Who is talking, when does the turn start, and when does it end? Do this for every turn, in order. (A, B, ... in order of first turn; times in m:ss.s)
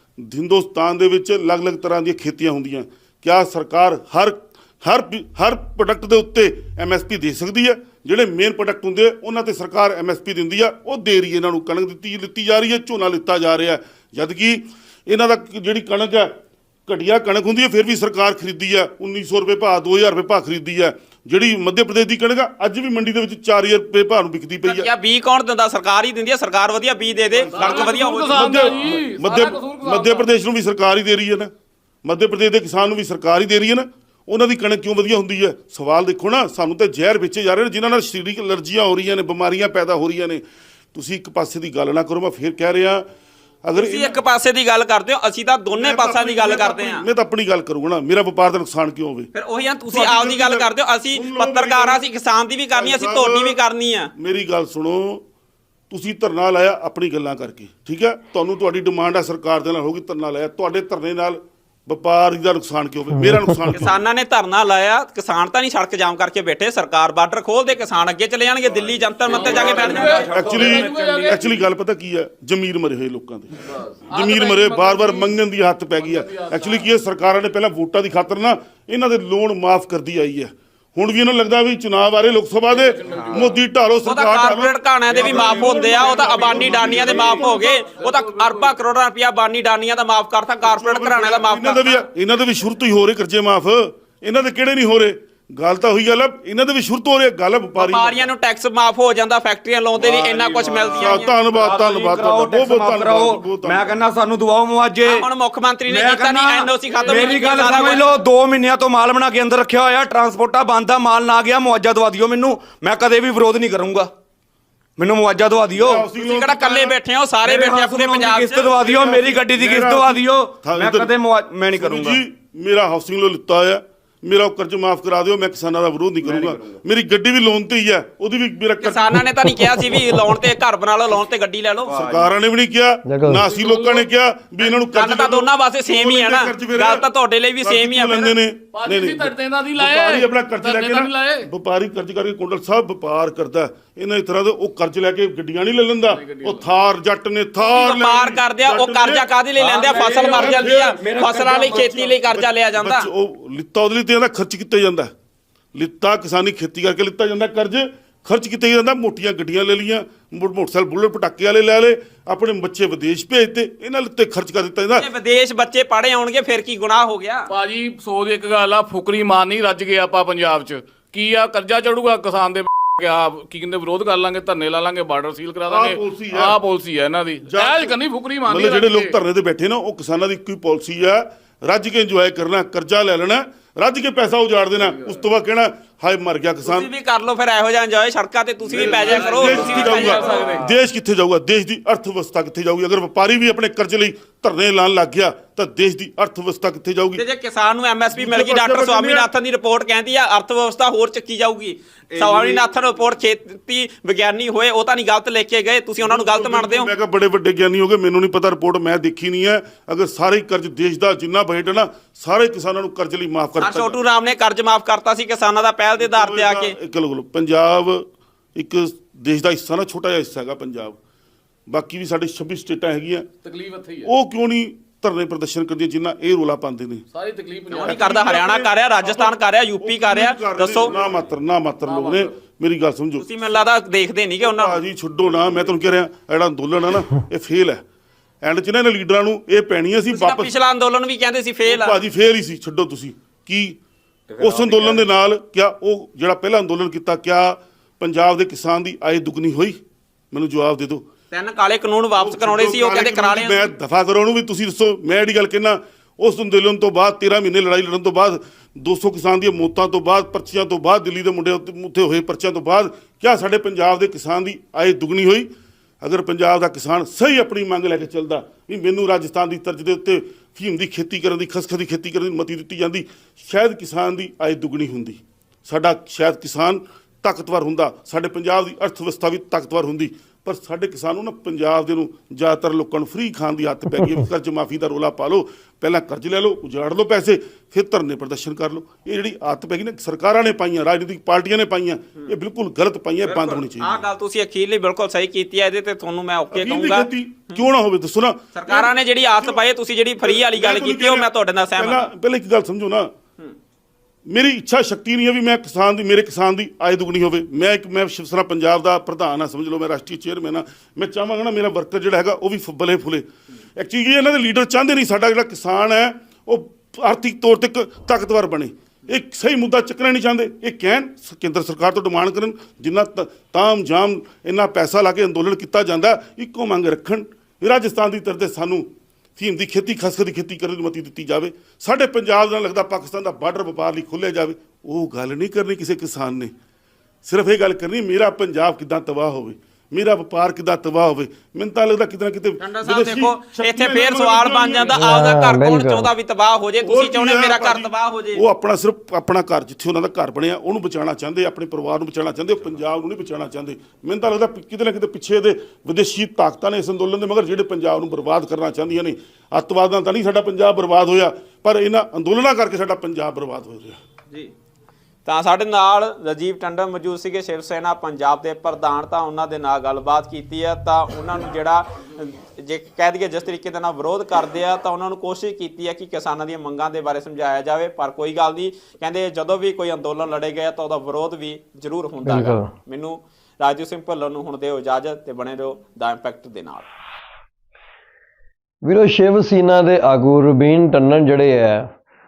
0:00.2-0:16.3 A
0:16.9-0:24.9 A
0:24.6-0:28.5 B
0:27.3-0:31.5 A
0:27.5-0:30.4 C
0:32.0-0:40.4 A
0:40.9-0:43.0 A
0:43.6-0:44.2 A
0:43.8-0:47.0 B
0:45.7-0:49.3 A
0:49.3-0:54.1 B
0:49.9-0:52.0 A
0:52.7-0:53.6 A
0:54.2-0:55.2 A
0:55.9-1:04.0 A
1:03.2-1:03.8 D
1:03.7-1:10.2 B
1:09.1-1:13.6 A
1:09.3-1:11.4 E
1:09.5-1:11.6 C
1:13.6-1:16.9 C
1:14.1-1:27.7 A
1:22.7-1:23.6 C
1:24.0-1:32.0 B
1:25.2-1:28.7 C
1:30.6-1:38.3 A
1:37.8-1:41.3 B
1:40.0-1:45.3 E
1:40.9-1:44.0 A
1:45.1-1:48.1 B
1:45.9-1:54.1 E
1:47.1-1:47.6 A
1:55.0-1:56.0 E
1:55.7-1:57.0 A
1:56.2-1:58.7 B
1:57.4-2:02.2 E
1:58.7-2:01.1 A
2:01.7-2:09.3 A
2:06.2-2:06.8 E
2:08.8-2:11.9 B
2:11.9-2:12.3 E
2:11.9-2:17.1 A
2:13.1-2:13.5 D
2:13.4-2:14.1 C
2:14.6-2:18.4 B
2:17.6-2:29.3 A
2:18.7-2:21.5 C
2:26.1-2:26.7 C
2:27.6-2:33.1 B
2:29.6-2:32.2 E
2:29.9-2:31.0 A
2:32.3-2:35.1 A
2:35.8-2:45.1 A
2:45.0-2:47.5 B
2:47.5-2:59.2 C
2:55.6-2:56.6 A
2:57.5-3:06.9 A
3:06.6-3:10.6 B
3:08.6-3:17.2 A
3:08.8-3:10.7 C
3:17.2-3:26.9 B
3:18.1-3:19.3 A
3:22.2-3:22.6 A
3:26.0-3:34.0 A
3:33.6-3:36.7 B
3:36.0-3:41.0 A
3:41.7-3:43.3 A
3:43.4-3:44.1 C
3:44.0-3:47.1 A
3:47.1-3:48.2 C
3:47.7-3:50.9 B
3:47.8-3:53.3 A
3:51.8-3:52.4 C
3:53.2-3:54.8 B
3:54.4-3:57.8 A
3:58.4-4:00.5 A
4:00.1-4:02.0 B
4:01.7-4:03.8 A
4:04.3-4:05.1 E
4:04.4-4:09.8 A
4:10.3-4:11.0 A
4:11.3-4:13.7 B
4:12.2-4:25.5 A
4:26.0-4:54.0 A
4:53.2-4:57.7 B
4:56.5-4:59.6 A
4:58.5-5:02.1 B
5:00.2-5:03.1 A
5:04.3-5:36.5 A
5:37.2-5:45.0 A
5:42.6-5:48.4 B
5:44.9-5:46.1 D
5:46.8-6:04.0 A
6:05.3-6:26.8 B
6:22.2-6:22.7 D
6:28.8-6:31.9 D